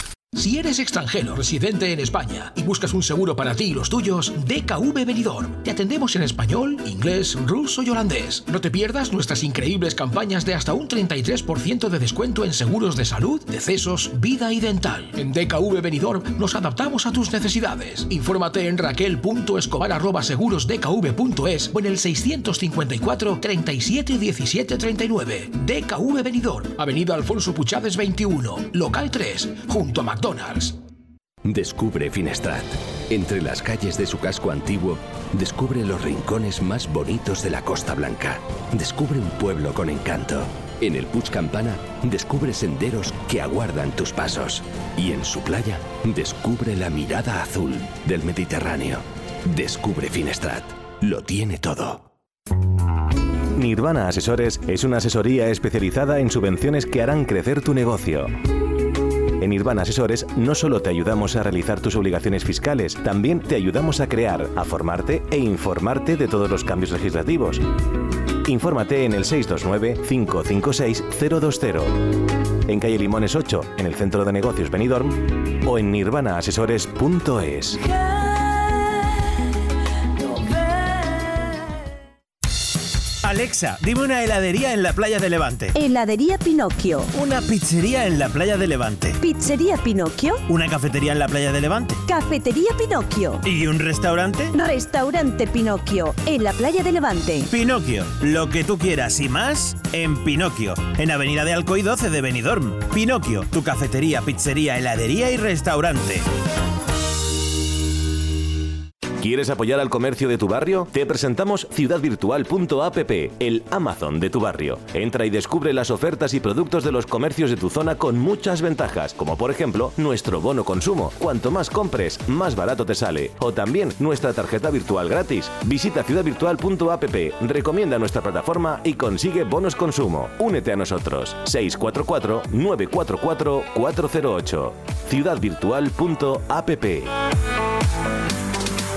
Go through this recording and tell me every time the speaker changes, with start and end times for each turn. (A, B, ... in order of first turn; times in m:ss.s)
0:00.3-0:30.8 A
0:31.4-0:52.1 B
0:53.5-0:58.3 C
0:59.4-1:07.7 C
1:08.4-1:17.8 C
1:23.2-1:25.7 D
1:25.7-1:27.1 E
1:27.1-1:29.2 D
1:29.2-1:30.4 E
1:30.5-1:32.0 D
1:32.0-1:33.4 E
1:33.4-1:34.5 D
1:34.5-1:37.5 E
1:37.5-1:46.2 D
1:49.2-2:17.1 C